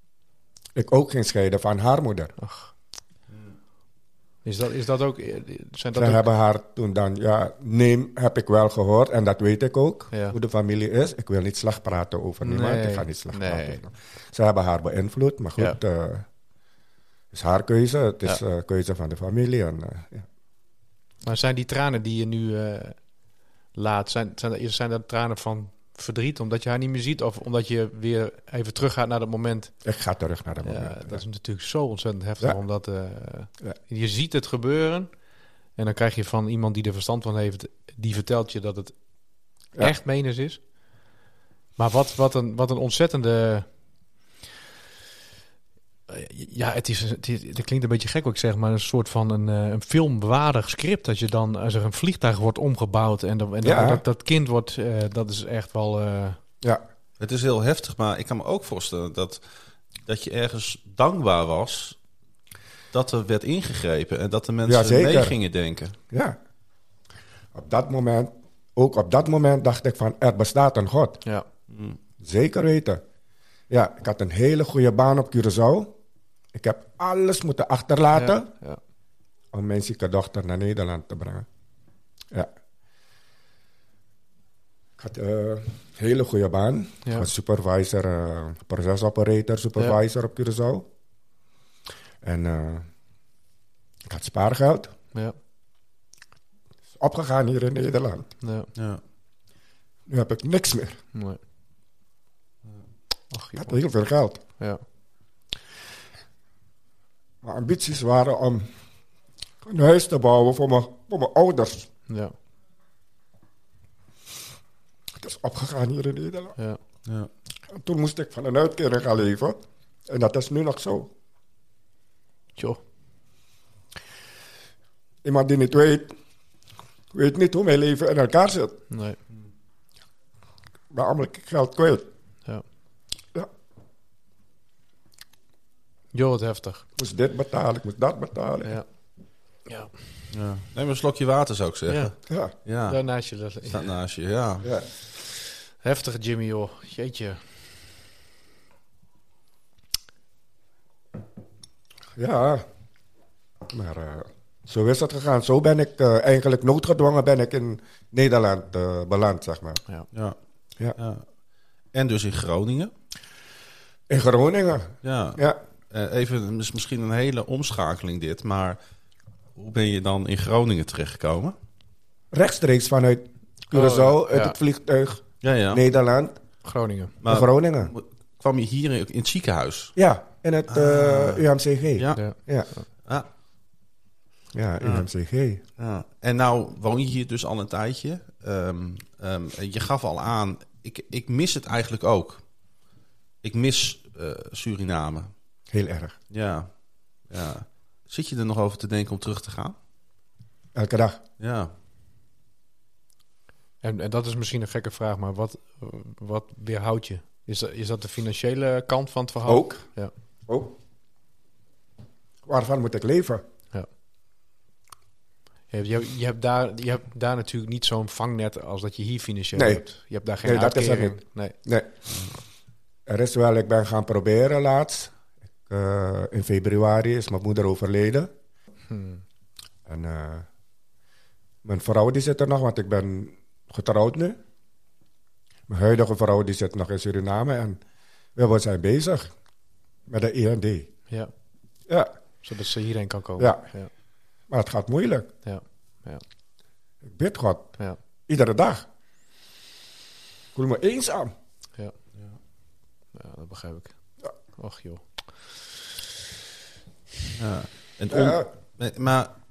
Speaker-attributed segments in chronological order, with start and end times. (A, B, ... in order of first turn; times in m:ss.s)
0:00.7-0:02.3 A
0:02.4-0:02.7 B
0:04.4-0:06.3 B
0:05.9-0:16.2 A
0:10.1-0:10.4 B
0:12.4-0:13.8 B
0:17.3-0:20.2 A
0:21.2-0:23.0 B
0:23.7-0:29.7 B
0:29.8-0:31.2 A
0:30.6-0:35.1 B
0:35.8-0:38.9 B
0:39.8-0:40.6 B
0:41.8-0:43.6 B
0:46.1-0:56.4 B
0:53.6-0:54.0 A
0:57.2-0:59.4 C
1:00.0-1:02.0 C
1:02.9-1:06.0 C
1:04.6-1:05.3 A
1:06.1-1:06.4 A
1:07.5-1:11.2 A
1:11.7-1:12.0 C
1:12.2-1:13.0 A
1:13.7-1:16.0 A
1:16.5-1:18.5 A
1:18.1-1:18.8 B
1:19.5-1:21.4 A
1:25.0-1:30.9 A
1:32.2-1:32.9 A
1:34.1-1:34.9 A
1:37.0-1:38.3 A
1:38.4-1:38.7 B
1:38.8-1:39.0 C
1:40.1-1:41.0 A
1:41.1-1:41.4 B
1:43.3-1:43.8 B
1:43.6-1:44.4 A
1:47.4-1:48.7 A
1:49.6-1:51.9 A
1:52.1-1:52.3 B
1:55.2-1:56.6 A
1:57.7-2:01.1 A
2:05.2-2:06.1 A
2:07.1-2:08.8 A
2:08.9-2:09.2 B
2:10.9-2:12.1 A
2:16.1-2:16.8 B
2:17.0-2:18.8 A
2:19.7-2:19.9 B
2:20.3-2:22.1 C
2:21.9-2:22.1 B
2:22.3-2:22.5 A
2:22.6-2:23.0 C
2:22.9-2:23.9 B
2:23.6-2:24.7 C
2:25.8-2:27.4 B
2:32.2-2:32.6 A
2:33.7-2:39.8 A
2:41.0-2:41.2 C
2:41.9-2:42.9 C
2:44.1-2:45.6 A
2:45.0-2:48.8 C
2:49.6-2:51.5 C
2:52.3-2:56.4 A
2:53.7-2:54.6 B
2:55.4-2:55.8 C
2:56.6-2:57.2 B
2:57.2-2:59.9 C
2:57.2-2:57.9 A
3:00.0-3:02.7 A
3:00.7-3:02.2 C
3:04.5-3:05.6 A
3:05.8-3:12.4 C
3:13.4-3:15.3 C
3:15.7-3:16.2 A
3:16.3-3:16.7 C
3:17.3-3:19.8 C
3:20.7-3:21.2 A
3:21.4-3:21.7 C
3:23.8-3:30.1 B
3:29.4-3:29.8 A
3:30.5-3:30.7 A
3:32.4-3:33.4 A
3:35.7-3:41.6 B
3:39.5-3:39.8 A
3:40.4-3:41.9 A
3:43.0-3:45.1 A
3:45.7-3:48.3 A
3:48.9-3:49.2 B
3:49.8-3:50.4 A
3:51.6-3:54.4 A
3:55.7-3:57.8 A
3:58.4-3:59.3 A
4:00.1-4:00.9 A
4:02.4-4:03.9 B
4:03.4-4:03.6 A
4:04.5-4:05.3 A
4:05.4-4:06.2 B
4:07.0-4:07.7 A
4:08.3-4:08.8 A
4:10.5-4:11.3 A
4:13.1-4:13.9 B
4:14.6-4:15.6 B
4:17.4-4:19.3 C
4:18.1-4:18.4 A